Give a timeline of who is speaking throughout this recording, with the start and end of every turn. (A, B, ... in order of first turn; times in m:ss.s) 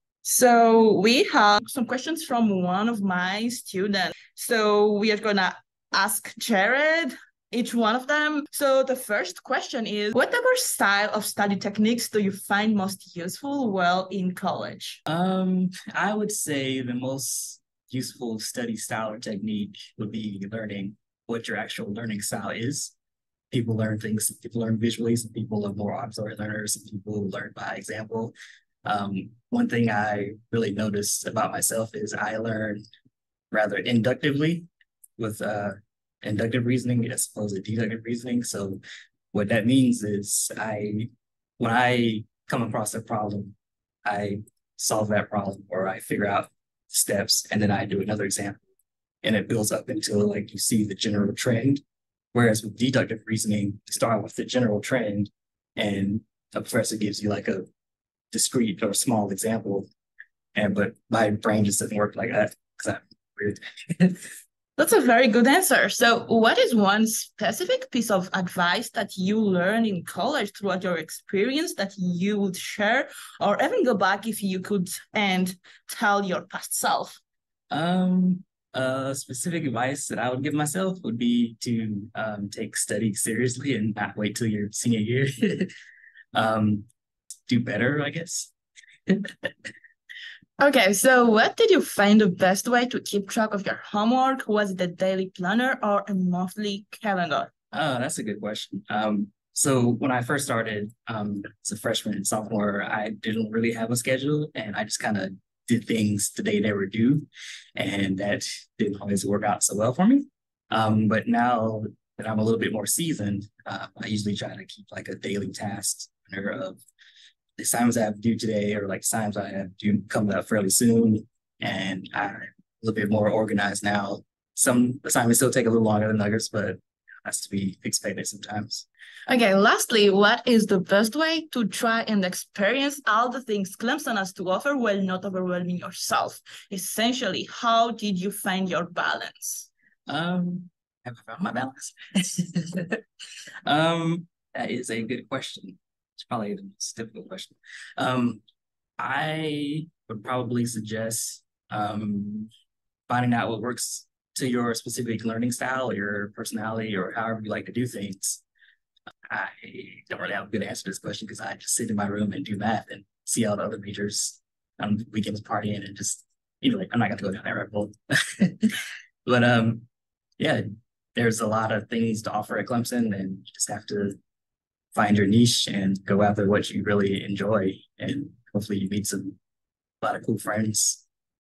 0:00.2-0:15.0 A
0:15.0-0:22.9 B
0:23.5-0:28.3 B
0:28.8-0:32.8 B
0:33.5-0:34.7 B
0:35.2-0:38.8 B
0:39.3-0:48.6 B
0:49.2-0:51.8 B
0:52.3-0:57.7 B
0:58.3-0:59.9 B
1:00.5-1:04.2 B
1:04.8-1:17.2 A
1:17.7-1:25.7 B
1:26.3-1:26.8 B
1:27.5-1:28.5 B
1:29.1-1:29.5 B
1:30.6-1:37.5 A
1:37.7-1:56.8 B
1:57.6-2:08.8 B
2:09.3-2:19.7 A
2:20.1-2:23.0 B
2:23.6-2:28.4 B
2:29.0-2:32.5 B
2:33.1-2:38.4 B
2:39.3-2:48.7 B
2:49.2-2:49.9 B
2:50.4-2:54.2 B
2:54.9-2:59.4 B
3:00.0-3:01.0 B